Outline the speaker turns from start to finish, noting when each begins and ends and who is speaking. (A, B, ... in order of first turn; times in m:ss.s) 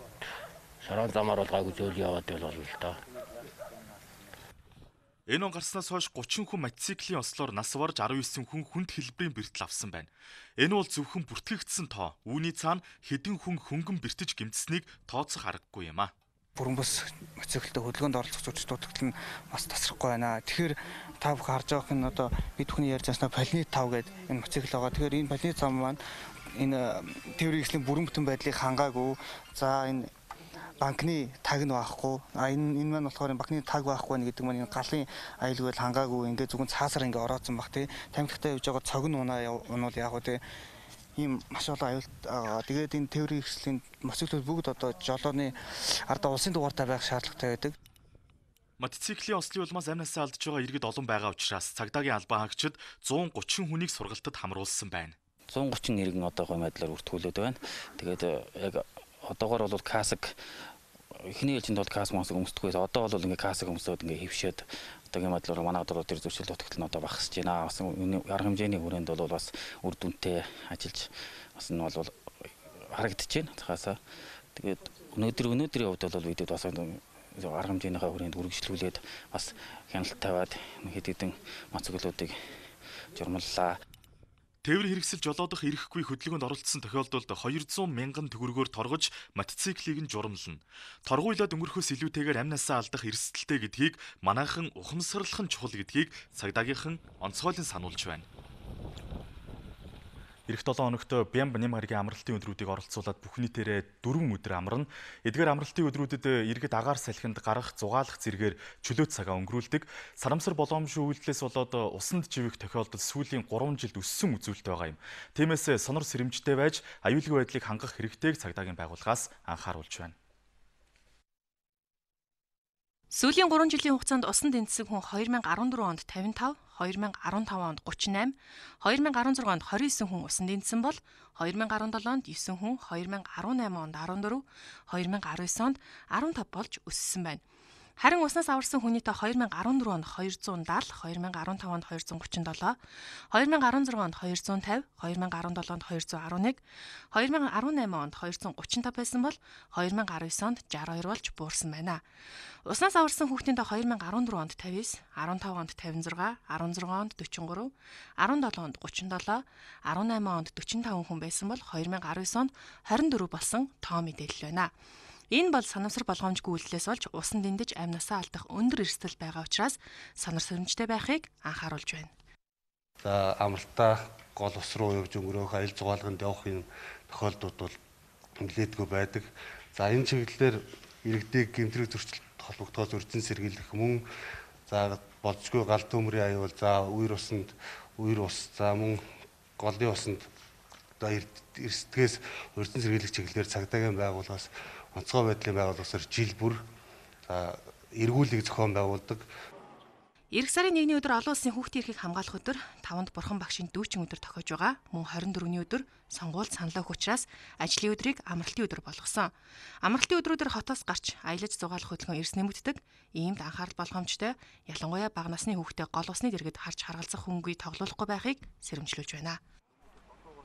0:00.8-0:03.0 A
0:05.3-0:16.1 B
0:16.6-0:26.0 C
0:26.5-0:30.1 C
0:30.8-0:40.4 C
0:41.2-0:47.7 C
0:48.8-0:55.1 B
0:55.5-1:00.4 D
1:01.3-1:12.1 D
1:12.9-1:14.0 D
1:14.6-1:22.4 D
1:23.1-1:23.8 D
1:24.6-1:38.3 B
1:40.5-2:00.1 B
2:03.1-2:17.4 E
2:18.0-2:22.8 E
2:23.3-2:32.0 E
2:32.6-2:44.7 E
2:45.3-2:52.1 E
2:53.0-2:57.8 F
2:58.4-3:04.0 F
3:04.7-3:09.1 F
3:09.6-3:10.3 F
3:11.0-3:16.7 F
3:17.3-3:19.3 F
3:20.3-3:39.4 E